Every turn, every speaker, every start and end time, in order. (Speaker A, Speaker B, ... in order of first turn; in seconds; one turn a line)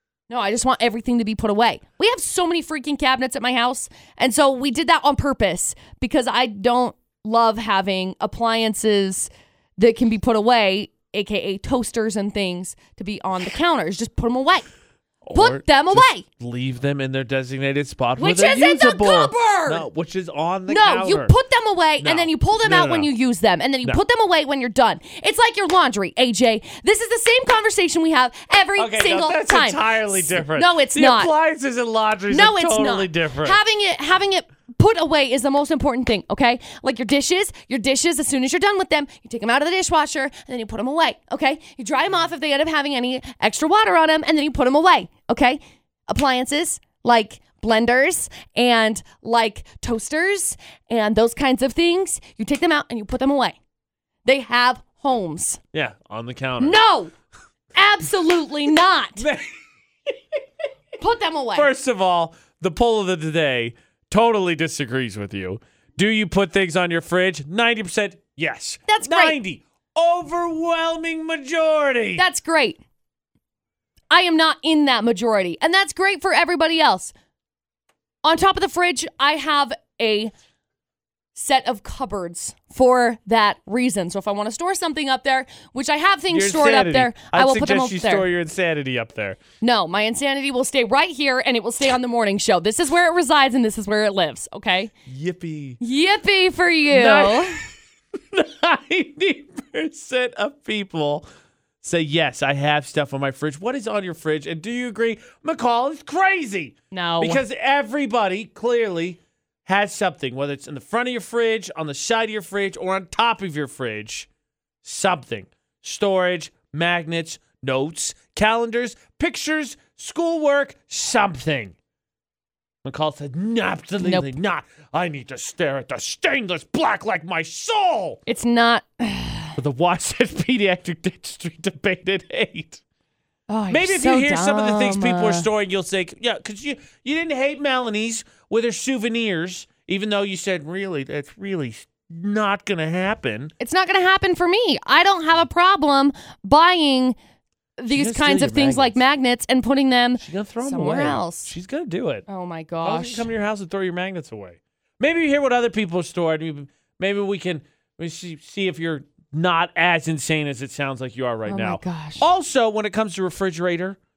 Speaker A: 0.3-14.7
Speaker B: 15.2-21.4
Speaker A: 15.3-16.2
Speaker A: 18.2-19.9
Speaker A: 20.7-31.3
Speaker B: 22.0-23.1
Speaker B: 28.8-33.6
Speaker A: 32.3-53.6
Speaker A: 54.2-55.6
Speaker B: 55.7-56.8
Speaker A: 56.6-57.1
Speaker A: 57.8-59.3
Speaker B: 59.2-60.2
Speaker A: 61.0-61.7
Speaker B: 61.5-72.2
Speaker A: 68.9-69.4
Speaker A: 72.2-72.8
Speaker A: 74.1-77.1
Speaker A: 78.2-80.3
Speaker A: 81.3-88.3
Speaker B: 86.3-89.4
Speaker A: 89.6-94.9
Speaker B: 95.1-95.8
Speaker A: 95.8-97.5
Speaker B: 96.9-97.7
Speaker B: 98.3-101.2
Speaker B: 101.8-114.3
Speaker A: 106.9-107.4
Speaker B: 114.8-121.8
Speaker B: 122.8-128.2
Speaker A: 124.0-124.3
Speaker A: 128.3-129.6
Speaker B: 129.6-132.8
Speaker A: 133.5-135.5
Speaker B: 133.7-143.5
Speaker A: 143.6-147.2
Speaker A: 147.8-151.5
Speaker B: 147.9-149.0
Speaker B: 150.2-152.3
Speaker A: 152.3-153.3
Speaker B: 152.8-164.0
Speaker A: 161.4-162.2